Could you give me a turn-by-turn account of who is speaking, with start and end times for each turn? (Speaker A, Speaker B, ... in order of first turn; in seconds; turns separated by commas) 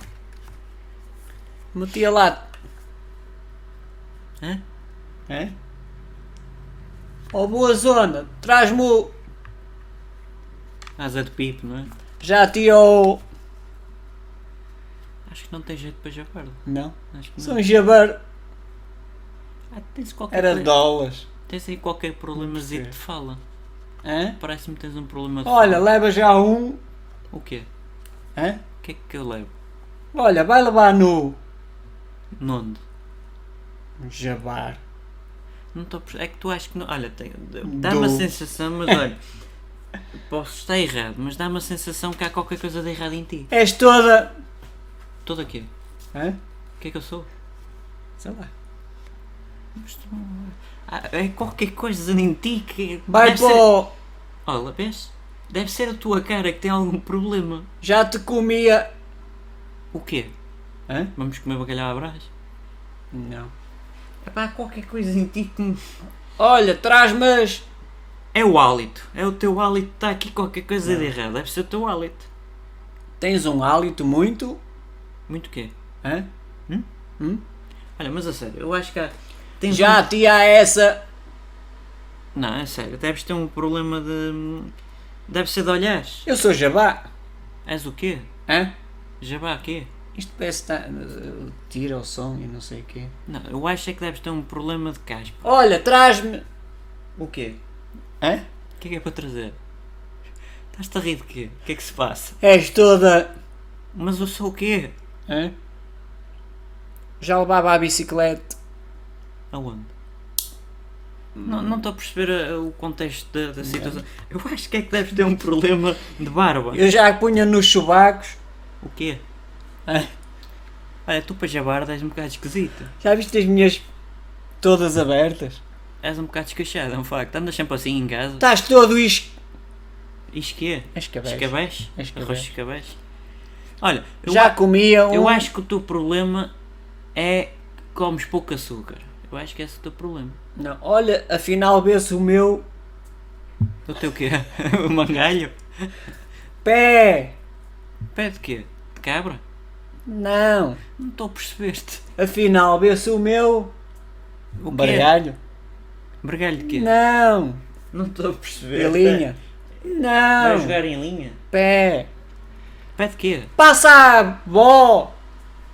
Speaker A: 1.7-2.5, Speaker A: 5.3-5.5, Speaker A: 7.3-9.2, Speaker B: 11.0-11.9, Speaker A: 12.2-13.2, Speaker B: 15.3-16.6, Speaker A: 16.7-18.2, Speaker B: 17.1-17.6, Speaker B: 19.7-20.7, Speaker A: 20.3-21.3, Speaker B: 21.5-23.4, Speaker A: 22.4-22.9, Speaker A: 24.0-24.4, Speaker B: 24.4-25.8, Speaker A: 25.4-26.8, Speaker B: 27.3-27.7, Speaker A: 28.4-28.6, Speaker B: 28.8-29.5, Speaker A: 30.1-31.4, Speaker B: 32.4-32.8, Speaker A: 34.0-34.8, Speaker B: 35.7-39.2, Speaker A: 37.6-38.3, Speaker B: 40.3-43.5, Speaker A: 43.5-44.3, Speaker B: 45.2-45.7, Speaker B: 46.8-47.3, Speaker A: 48.2-48.5, Speaker B: 49.8-53.7, Speaker A: 53.1-54.0, Speaker B: 54.5-57.7, Speaker A: 57.8-58.9, Speaker B: 59.9-60.3, Speaker B: 61.2-62.3, Speaker A: 63.1-63.5, Speaker B: 64.2-65.8, Speaker A: 66.4-67.7, Speaker B: 68.3-72.3, Speaker A: 73.2-74.6, Speaker B: 75.3-75.7, Speaker B: 78.0-80.1, Speaker A: 79.7-81.0, Speaker B: 82.3-84.7, Speaker B: 85.3-86.3, Speaker A: 86.3-87.1, Speaker B: 87.7-88.3, Speaker A: 88.5-88.7, Speaker B: 89.2-89.9, Speaker A: 90.2-93.1, Speaker B: 93.3-95.5, Speaker A: 95.4-96.4, Speaker B: 97.2-97.6, Speaker B: 98.8-99.6, Speaker B: 100.7-102.4, Speaker A: 102.4-103.3, Speaker B: 103.9-105.0, Speaker A: 105.3-105.5, Speaker A: 107.2-108.6, Speaker B: 109.5-109.9, Speaker B: 111.4-116.8, Speaker A: 113.6-114.0, Speaker A: 116.7-118.4, Speaker B: 118.8-119.2, Speaker B: 121.1-122.9, Speaker A: 123.0-123.8, Speaker A: 124.6-125.6, Speaker B: 126.0-128.5, Speaker A: 128.4-129.4, Speaker B: 130.3-133.0, Speaker A: 130.9-132.5, Speaker B: 133.8-134.6, Speaker A: 134.3-135.5, Speaker B: 135.1-136.5, Speaker B: 137.2-140.4, Speaker A: 140.6-142.7, Speaker B: 143.9-145.6, Speaker A: 146.6-147.4, Speaker B: 148.1-149.4, Speaker A: 150.1-150.8, Speaker B: 151.0-152.0, Speaker A: 152.2-153.7, Speaker B: 154.6-155.1, Speaker A: 154.7-155.4, Speaker B: 156.2-156.9, Speaker A: 156.6-157.6, Speaker B: 157.9-159.3, Speaker A: 158.7-160.8, Speaker B: 160.4-161.4, Speaker A: 161.5-162.1, Speaker B: 163.0-163.5, Speaker A: 163.6-165.2